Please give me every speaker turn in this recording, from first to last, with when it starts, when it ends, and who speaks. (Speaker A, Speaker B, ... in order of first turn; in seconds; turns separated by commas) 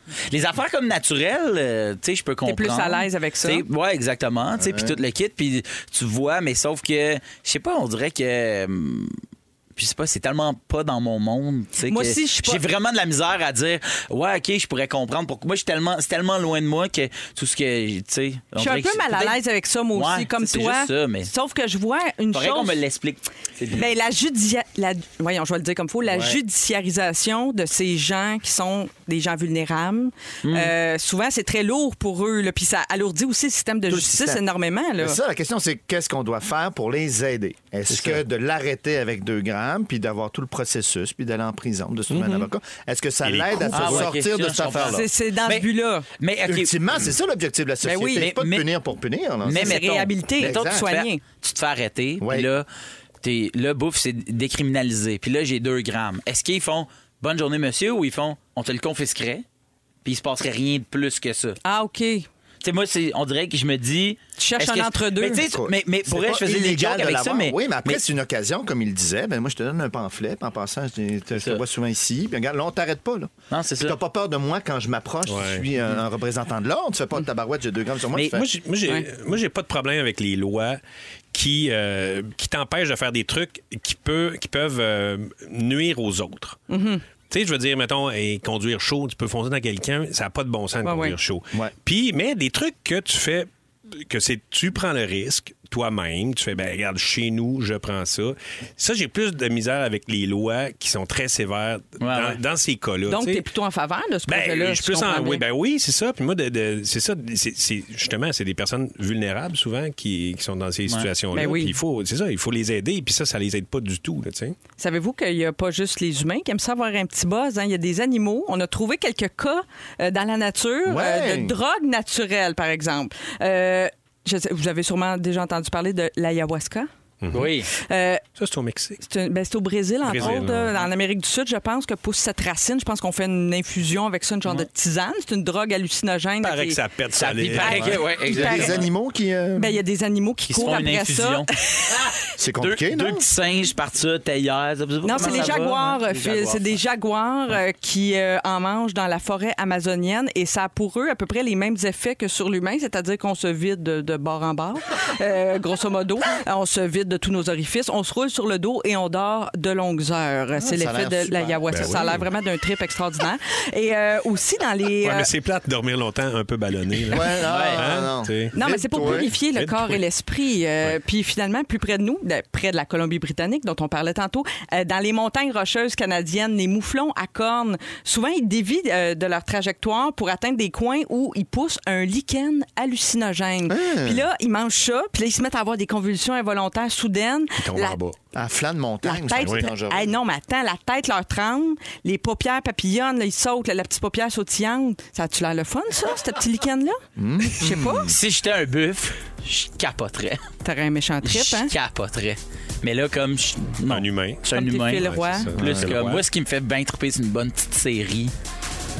Speaker A: 0.3-9.2, Speaker B: 2.4-3.6, Speaker C: 4.6-5.0, Speaker A: 9.8-19.4, Speaker B: 11.8-12.6, Speaker B: 18.6-22.8, Speaker A: 19.9-21.3, Speaker A: 22.3-23.9, Speaker B: 23.7-35.2, Speaker C: 26.1-26.4, Speaker A: 30.4-30.7, Speaker C: 33.9-34.4, Speaker C: 35.0-45.1, Speaker A: 37.9-38.2, Speaker D: 42.1-42.4, Speaker D: 43.2-44.1, Speaker A: 43.7-45.7, Speaker B: 44.8-46.0, Speaker A: 46.2-46.7, Speaker C: 46.4-49.8, Speaker B: 47.8-48.3, Speaker A: 48.1-48.7, Speaker A: 49.4-52.6, Speaker B: 49.5-51.2, Speaker C: 50.4-50.9, Speaker C: 52.2-52.5, Speaker A: 53.2-59.4, Speaker A: 60.0-61.6, Speaker B: 61.6-62.3, Speaker A: 62.6-68.0, Speaker B: 64.4-65.5, Speaker C: 65.4-78.5, Speaker A: 71.4-71.6, Speaker A: 73.5-74.0, Speaker D: 75.3-75.6, Speaker D: 78.3-80.8, Speaker D: 81.3-86.6, Speaker B: 86.7-87.0, Speaker D: 87.3-103.4, Speaker B: 90.8-91.2, Speaker A: 102.0-102.4, Speaker B: 103.1-105.4, Speaker D: 104.3-114.6, Speaker B: 111.3-111.8, Speaker B: 114.8-126.9, Speaker C: 120.8-121.5, Speaker D: 127.2-127.5, Speaker A: 127.3-127.7, Speaker B: 127.8-128.2, Speaker D: 128.4-129.0, Speaker B: 129.0-136.8, Speaker D: 130.0-130.8, Speaker D: 136.4-138.0, Speaker A: 137.2-138.9, Speaker B: 137.5-138.8, Speaker C: 138.2-139.8, Speaker B: 139.6-141.5, Speaker A: 140.5-141.5, Speaker C: 142.4-143.2, Speaker A: 142.6-146.8, Speaker B: 145.0-165.3, Speaker C: 160.6-162.2, Speaker D: 161.7-162.2, Speaker D: 165.0-170.0, Speaker C: 167.1-169.3, Speaker A: 167.4-167.9, Speaker B: 168.5-188.0, Speaker C: 183.7-184.3, Speaker D: 187.6-188.2, Speaker C: 188.3-190.1, Speaker B: 189.0-198.1, Speaker D: 189.4-189.7, Speaker C: 197.2-198.2, Speaker A: 198.1-200.4, Speaker B: 200.6-201.7, Speaker A: 201.2-208.3, Speaker D: 203.9-204.4, Speaker B: 204.5-205.5, Speaker D: 205.0-206.2, Speaker C: 205.6-206.0